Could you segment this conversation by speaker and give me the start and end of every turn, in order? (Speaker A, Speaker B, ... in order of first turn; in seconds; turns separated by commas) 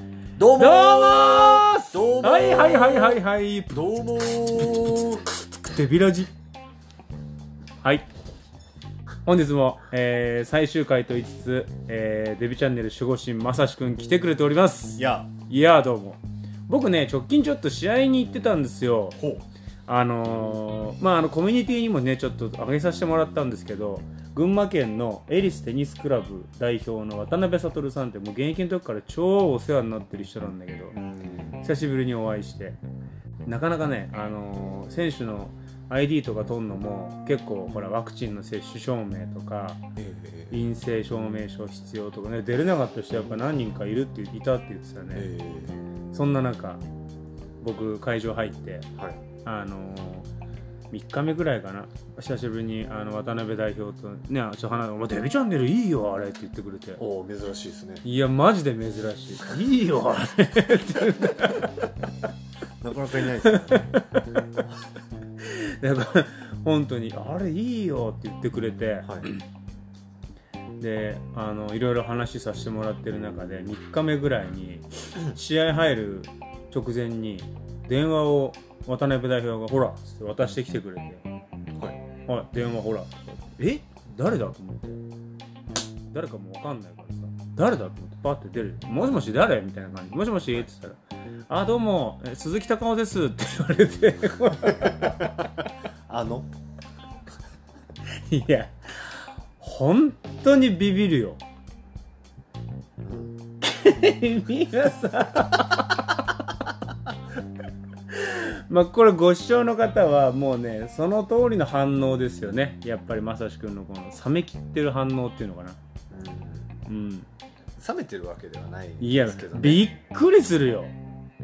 Speaker A: 0.4-5.2, Speaker B: 0.5-3.8, Speaker B: 5.2-6.3, Speaker B: 9.2-19.2, Speaker A: 15.0-15.3, Speaker A: 19.2-19.4, Speaker B: 19.9-30.9, Speaker A: 30.9-31.6, Speaker B: 31.6-32.8, Speaker B: 33.5-39.8, Speaker A: 40.0-40.6, Speaker B: 40.5-45.3, Speaker A: 45.1-45.9, Speaker B: 46.1-46.8, Speaker B: 47.6-48.9, Speaker A: 49.0-49.2, Speaker B: 49.4-50.3, Speaker B: 50.9-57.0, Speaker A: 57.0-58.0, Speaker B: 58.0-61.7, Speaker A: 62.8-64.0, Speaker B: 63.4-64.2, Speaker B: 65.4-69.4, Speaker A: 69.0-69.3, Speaker B: 70.8-81.2, Speaker A: 81.7-82.0, Speaker B: 82.3-85.0, Speaker B: 86.1-95.4, Speaker A: 96.1-96.5, Speaker B: 98.3-101.4, Speaker A: 103.0-103.3, Speaker B: 103.6-106.5, Speaker B: 108.1-115.8, Speaker A: 116.1-116.7, Speaker B: 116.8-117.3, Speaker A: 117.8-119.9, Speaker B: 119.0-120.9